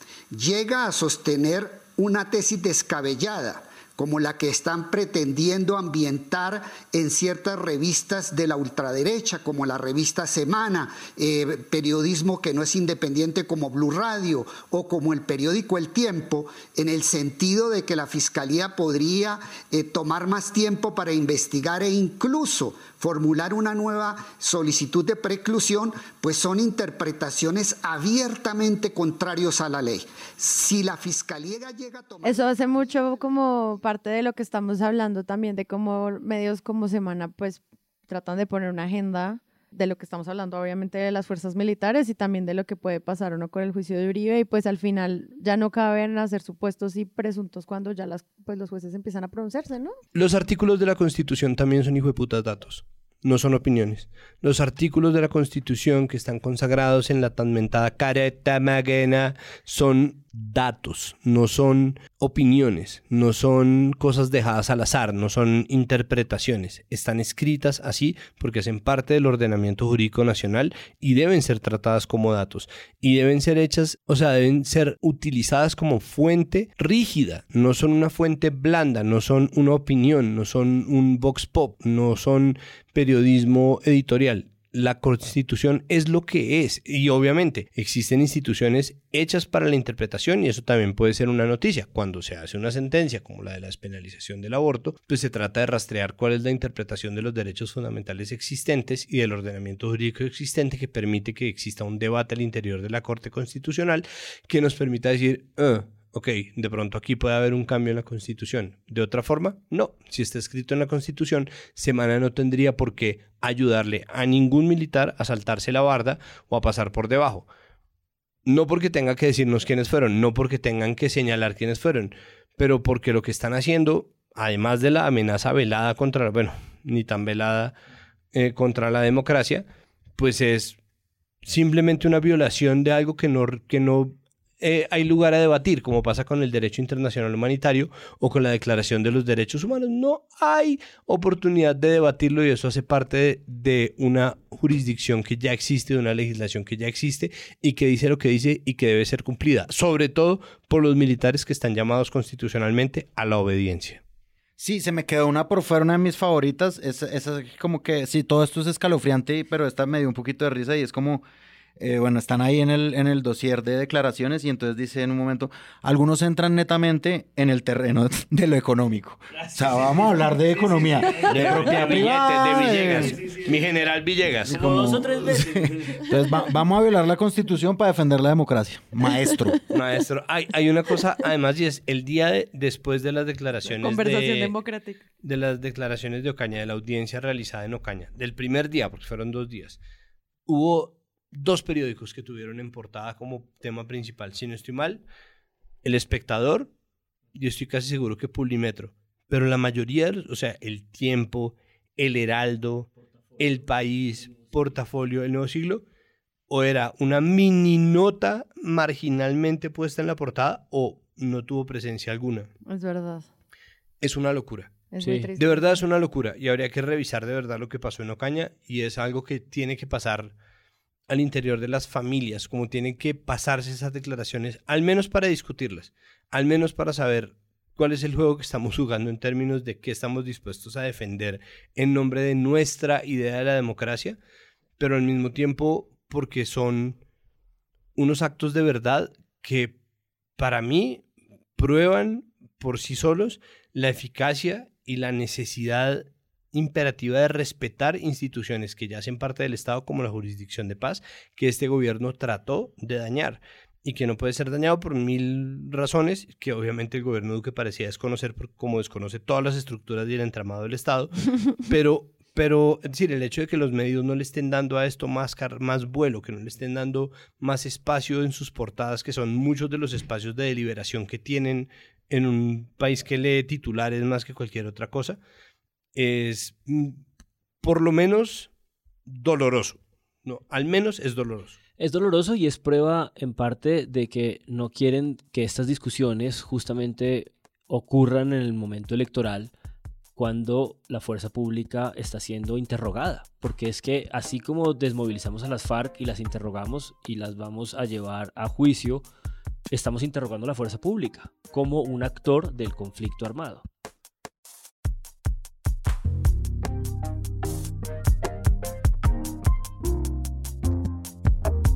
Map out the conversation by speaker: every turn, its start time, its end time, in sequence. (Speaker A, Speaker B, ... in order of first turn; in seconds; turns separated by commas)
Speaker A: 0.3-32.5, Speaker B: 32.2-50.0, Speaker C: 50.1-117.5, Speaker C: 118.5-127.7, Speaker C: 128.3-129.7, Speaker C: 130.2-130.8, Speaker C: 131.4-154.0, Speaker D: 154.6-161.2, Speaker D: 161.8-173.4, Speaker C: 171.3-174.6, Speaker D: 174.4-179.6, Speaker E: 174.5-176.0, Speaker C: 179.7-184.5, Speaker B: 183.7-185.0, Speaker C: 185.2-189.8, Speaker C: 190.5-195.0, Speaker C: 195.8-196.7, Speaker C: 197.3-205.8, Speaker C: 206.5-212.5, Speaker B: 212.7-213.3, Speaker C: 214.0-214.8, Speaker B: 214.9-215.8, Speaker E: 215.0-215.3, Speaker C: 215.4-220.3, Speaker C: 221.1-234.2, Speaker C: 234.8-237.0, Speaker C: 237.9-239.7, Speaker C: 240.4-241.0, Speaker C: 241.6-275.2, Speaker C: 275.9-277.0, Speaker C: 277.6-278.5, Speaker C: 279.1-281.6, Speaker E: 281.8-289.5, Speaker E: 290.1-299.0, Speaker E: 299.7-303.6